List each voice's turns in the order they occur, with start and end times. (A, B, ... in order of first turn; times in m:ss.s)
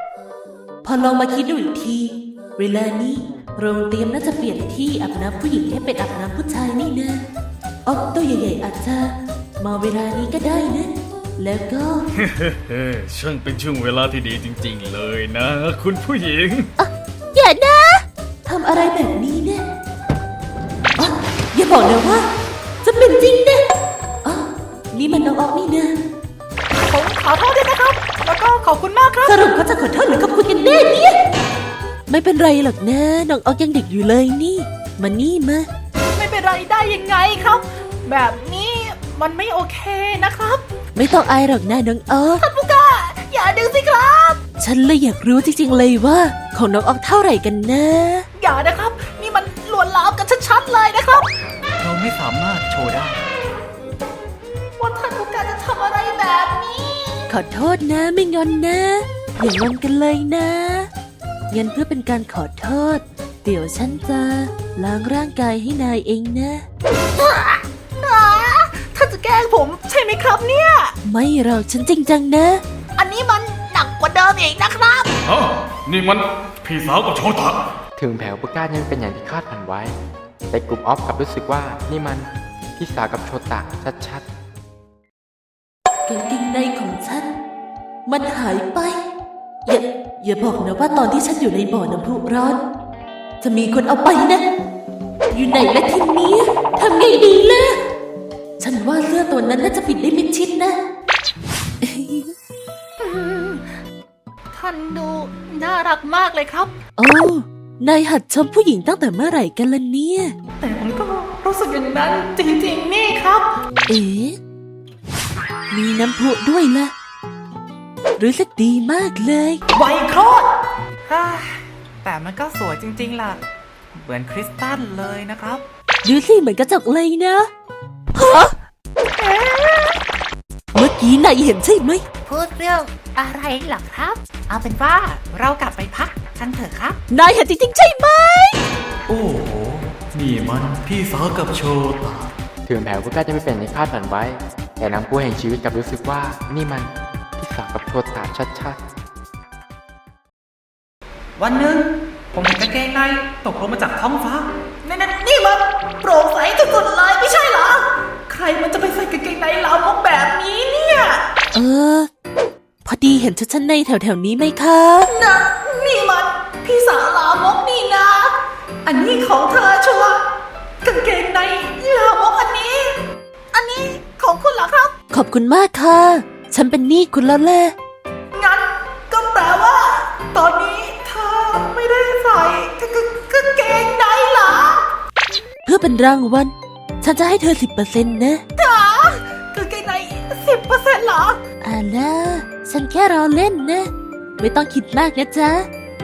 0:00.8-0:07.2 A
0:07.9-0:12.0 A
0:12.1-0:16.7 B
0:16.8-0:19.7 A
0:21.0-0:22.2 A
0:22.8-0:23.6 A
0:24.2-0:26.0 A
0:26.7-0:29.5 C
0:29.2-0:31.2 A
0:32.1-0:35.7 A
0:36.1-0:40.6 C
0:41.0-0:42.4 A
0:42.4-0:44.4 C
0:44.6-0:48.3 A
0:48.4-0:51.3 C
0:51.8-0:53.2 B
0:54.8-0:57.3 C
0:57.3-1:00.9 A
1:01.5-1:06.6 A
1:06.8-1:11.0 C
1:11.0-1:12.6 A
1:13.0-1:15.1 C
1:15.2-1:17.6 B
1:18.0-1:20.0 D
1:20.5-1:24.2 D
1:26.1-1:27.3 A
1:28.1-1:29.0 A
1:29.7-1:32.6 A
1:33.4-1:34.4 A
1:35.3-1:37.8 A
1:38.6-1:40.8 A
1:41.8-1:42.3 A
1:43.0-1:43.8 C
1:44.5-1:46.7 C
1:47.0-1:50.3 A
1:50.6-1:53.5 C
1:53.9-1:54.4 A
1:55.7-1:56.9 A
1:58.2-1:59.6 A
1:59.7-2:00.5 C
2:01.1-2:03.4 C
2:04.0-2:05.6 C
2:06.0-2:07.5 A
2:08.2-2:08.5 A
2:09.2-2:10.0 C
2:10.7-2:12.0 A
2:12.3-2:17.0 C
2:17.1-2:18.6 A
2:19.1-2:22.3 B
2:22.7-2:28.8 D
2:31.4-2:41.3 C
2:41.5-2:42.1 A
2:42.8-2:45.1 A
2:45.1-2:50.2 C
2:50.8-2:53.0 C
2:53.5-2:54.9 C
2:55.1-2:57.7 A
2:58.3-3:04.8 C
3:05.6-3:08.4 A
3:08.6-3:11.4 C
3:11.6-3:15.7 A